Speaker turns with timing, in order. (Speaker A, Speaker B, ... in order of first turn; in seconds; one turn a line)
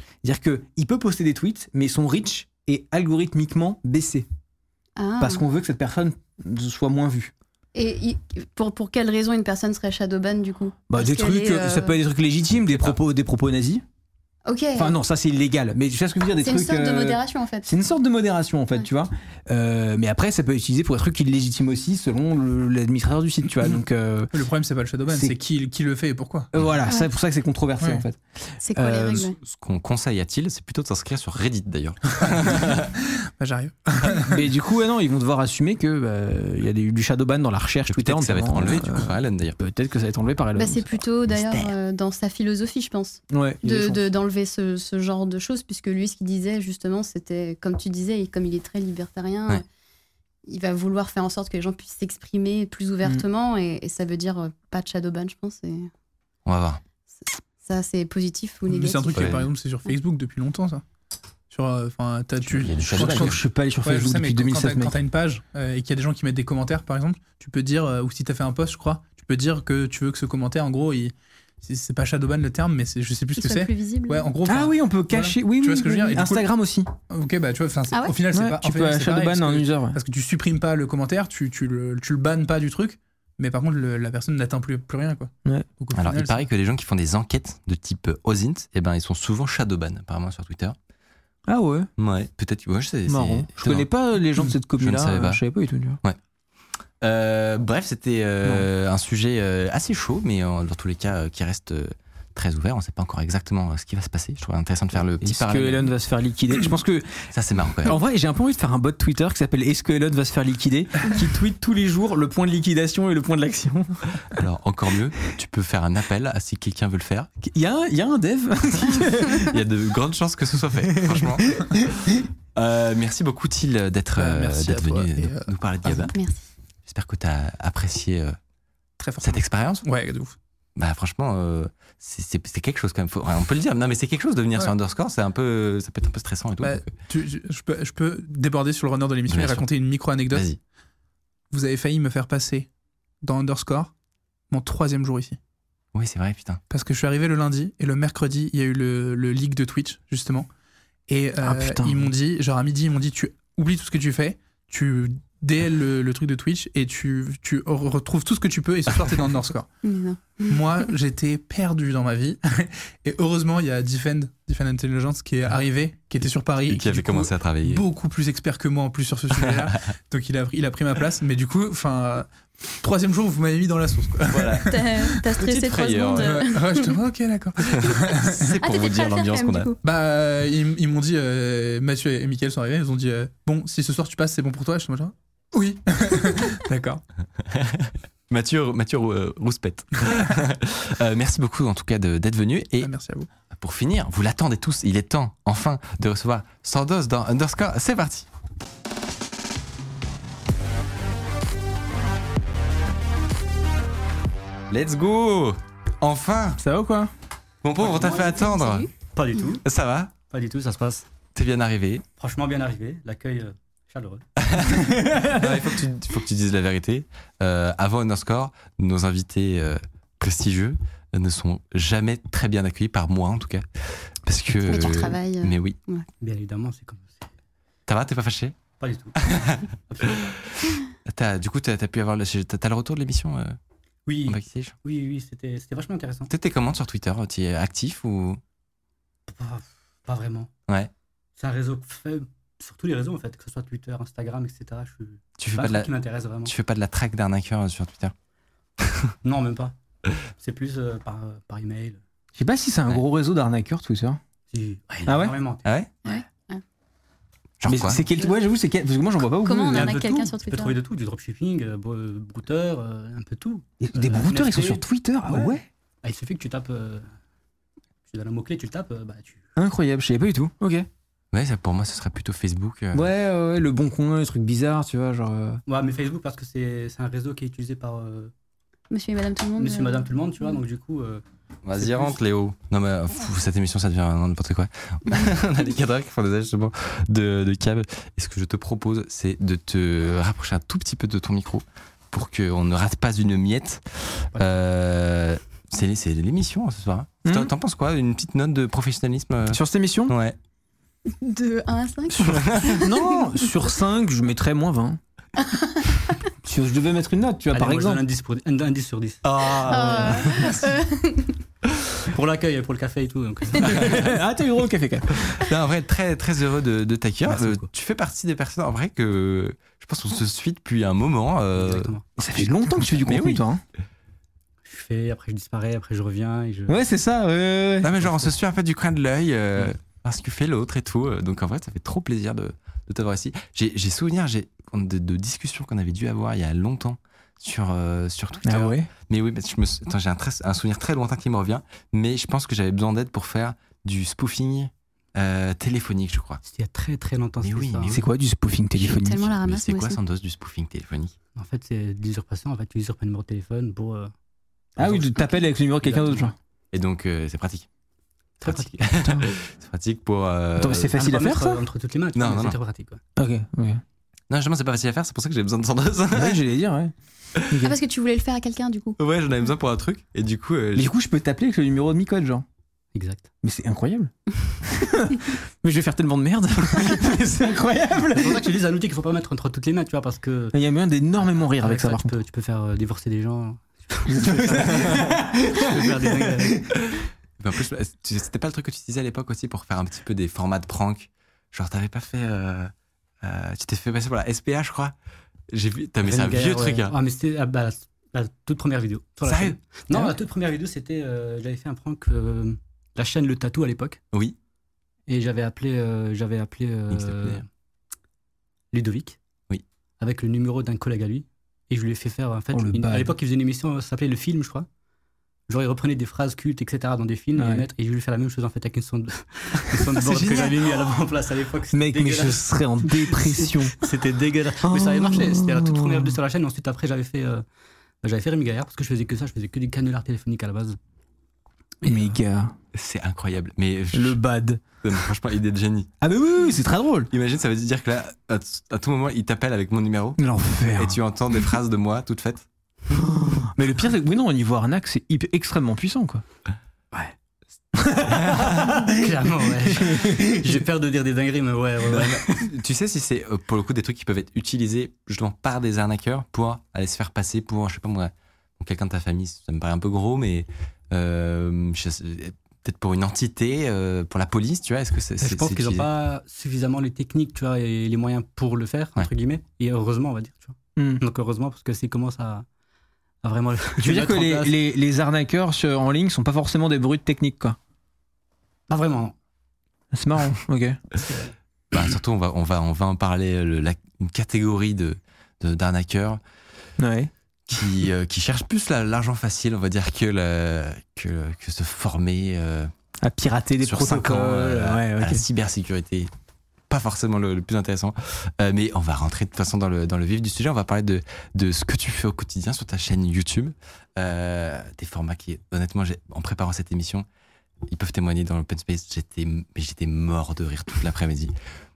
Speaker A: 0.2-4.3
Speaker B: 5.0-5.4
Speaker A: 5.2-7.3
Speaker B: 7.8-12.0
Speaker A: 10.9-13.8
Speaker C: 12.7-12.9
Speaker B: 14.4-14.9
Speaker A: 14.8-24.3
Speaker B: 16.4-17.7
Speaker D: 24.3-26.5
Speaker A: 26.5-29.3
Speaker D: 27.8-28.1
Speaker B: 28.6-29.4
Speaker C: 29.4-32.9
Speaker D: 33.4-34.4
Speaker A: 34.3-41.0
Speaker C: 37.9-39.6
Speaker B: 40.6-49.6
Speaker C: 41.3-41.7
Speaker A: 43.3-44.0
Speaker B: 50.5-55.9
Speaker C: 56.5-56.8
Speaker B: 57.6-59.4
Speaker D: 58.7-60.8
Speaker C: 59.1-59.5
Speaker D: 61.5-76.5
Speaker C: 62.5-63.4
Speaker A: 62.9-65.0
Speaker B: 73.4-74.3
Speaker A: 74.5-76.9
Speaker D: 77.1-86.4
Speaker A: 78.3-80.0
Speaker C: 86.0-90.8
Speaker A: 91.5-91.9
Speaker C: 92.0-93.9
Speaker A: 93.1-96.0
Speaker C: 94.8-95.4
Speaker C: 97.0-105.9
Speaker A: 105.2-107.3
Speaker C: 107.3-108.0
Speaker A: 107.8-114.0
Speaker C: 114.3-117.3
Speaker A: 117.4-119.5
Speaker C: 118.8-121.8
Speaker A: 121.0-122.2
Speaker C: 122.5-126.1
Speaker D: 124.2-126.1
Speaker B: 126.1-126.5
Speaker C: 126.9-128.4
Speaker D: 129.0-130.4
Speaker C: 129.2-129.8
Speaker C: 130.8-136.8
Speaker D: 136.6-140.4
Speaker C: 139.3-139.7
Speaker C: 140.3-140.6
Speaker D: 141.5-142.7
Speaker D: 143.2-143.9
Speaker D: 144.5-145.4
Speaker C: 145.9-146.6
Speaker D: 146.7-150.5
Speaker D: 151.1-159.7
Speaker A: 151.4-152.1
Speaker B: 159.8-160.6
Speaker D: 160.5-172.3
Speaker C: 166.7-167.8
Speaker C: 169.4-169.7
Speaker D: 172.8-174.8
Speaker C: 174.3-176.4
Speaker B: 174.7-176.9
Speaker D: 176.2-178.5
Speaker C: 177.8-179.7
Speaker B: 177.9-179.8
Speaker D: 179.8-187.0
Speaker C: 187.4-192.9
Speaker D: 192.8-193.3
Speaker C: 193.5-198.3
Speaker C: 204.7-206.6
Speaker A: 206.6-207.1
Speaker C: 207.6-208.9
Speaker E: 207.8-208.5
Speaker B: 208.4-208.9
Speaker E: 209.0-209.6
Speaker C: 209.6-210.1
Speaker E: 210.3-211.1
Speaker C: 211.3-212.0
Speaker E: 212.2-214.2
Speaker C: 214.5-225.8
Speaker A: 215.1-215.4
Speaker B: 224.6-226.1
Speaker E: 226.2-227.3
Speaker C: 227.9-228.6
Speaker E: 228.8-229.3
Speaker C: 229.2-229.6
Speaker E: 229.9-230.2
Speaker C: 231.1-233.6
Speaker E: 234.1-236.3
Speaker C: 234.3-234.8
Speaker C: 236.3-238.4
Speaker E: 239.3-240.5
Speaker E: 241.4-246.5
Speaker C: 245.4-245.9
Speaker C: 246.4-248.1
Speaker C: 248.8-249.1
Speaker E: 249.2-249.8
Speaker E: 250.4-252.0
Speaker A: 252.4-254.2
Speaker E: 254.5-256.2
Speaker A: 255.1-255.4
Speaker C: 255.6-255.9
Speaker B: 256.1-256.6
Speaker C: 257.6-258.0
Speaker A: 257.6-260.0
Speaker B: 259.4-260.8
Speaker E: 259.7-267.1
Speaker A: 263.8-265.6
Speaker E: 268.1-269.4
Speaker A: 269.6-270.9
Speaker C: 271.3-273.1
Speaker A: 272.9-275.6
Speaker E: 275.7-278.3
Speaker B: 278.9-280.6
Speaker E: 279.6-281.2
Speaker C: 281.6-300.4
Speaker E: 281.8-282.1
Speaker A: 297.2-297.5
Speaker A: 299.5-300.1
Speaker B: 301.1-303.5
Speaker A: 302.2-305.0
Speaker C: 302.2-302.8
Speaker B: 305.4-306.1
Speaker A: 306.4-308.0
Speaker E: 307.5-310.5
Speaker C: 309.2-310.5
Speaker B: 309.7-311.3
Speaker E: 312.1-314.2
Speaker A: 313.6-315.4
Speaker C: 315.4-323.4
Speaker E: 317.3-317.6
Speaker E: 321.6-322.1
Speaker A: 322.2-323.6
Speaker E: 324.6-326.8
Speaker A: 326.7-327.9
Speaker C: 327.8-346.4
Speaker A: 338.4-338.9
Speaker E: 346.4-348.0
Speaker C: 347.4-348.1
Speaker A: 347.9-349.2
Speaker B: 348.8-350.0
Speaker C: 349.0-351.1
Speaker E: 351.4-354.1
Speaker A: 354.8-356.3
Speaker E: 354.8-356.3
Speaker C: 356.7-357.7
Speaker E: 358.4-358.8
Speaker C: 358.4-360.9
Speaker A: 360.6-361.6
Speaker E: 360.9-363.0
Speaker C: 362.1-362.6
Speaker A: 363.2-363.8
Speaker C: 364.3-366.4
Speaker A: 366.1-367.8
Speaker B: 367.6-369.0
Speaker C: 369.0-370.9
Speaker A: 370.8-372.4
Speaker E: 372.9-373.3
Speaker A: 373.4-374.1
Speaker A: 374.7-378.6
Speaker E: 378.1-380.6
Speaker A: 380.5-382.1
Speaker E: 381.6-386.6
Speaker A: 384.1-386.6
Speaker C: 386.9-394.9
Speaker C: 395.5-396.9
Speaker E: 396.0-404.0
Speaker C: 399.2-399.6
Speaker E: 405.1-407.4
Speaker C: 406.9-407.4
Speaker E: 408.7-409.2
Speaker E: 410.0-414.7
Speaker A: 412.5-413.1
Speaker E: 415.5-427.4
Speaker A: 417.4-417.6
Speaker C: 419.9-420.8
Speaker A: 421.7-423.8
Speaker A: 424.6-426.1
Speaker E: 428.0-430.8
Speaker E: 431.8-432.1
Speaker A: 431.9-432.6
Speaker C: 432.7-434.2
Speaker A: 433.9-434.6
Speaker C: 434.8-435.9
Speaker A: 436.0-437.1
Speaker C: 437.1-442.4
Speaker A: 440.2-441.0
Speaker A: 443.0-446.2
Speaker A: 447.8-449.0
Speaker E: 448.9-452.4
Speaker A: 449.8-450.6
Speaker C: 451.9-465.9
Speaker E: 465.2-472.4
Speaker A: 470.8-471.0
Speaker E: 473.2-474.6
Speaker A: 473.8-477.6
Speaker E: 478.7-479.1
Speaker A: 479.9-480.8
Speaker E: 481.1-481.3
Speaker C: 481.7-486.2
Speaker A: 486.8-487.1
Speaker C: 487.5-492.7
Speaker A: 493.0-495.2
Speaker C: 493.6-496.1
Speaker C: 496.7-507.1
Speaker C: 507.6-511.3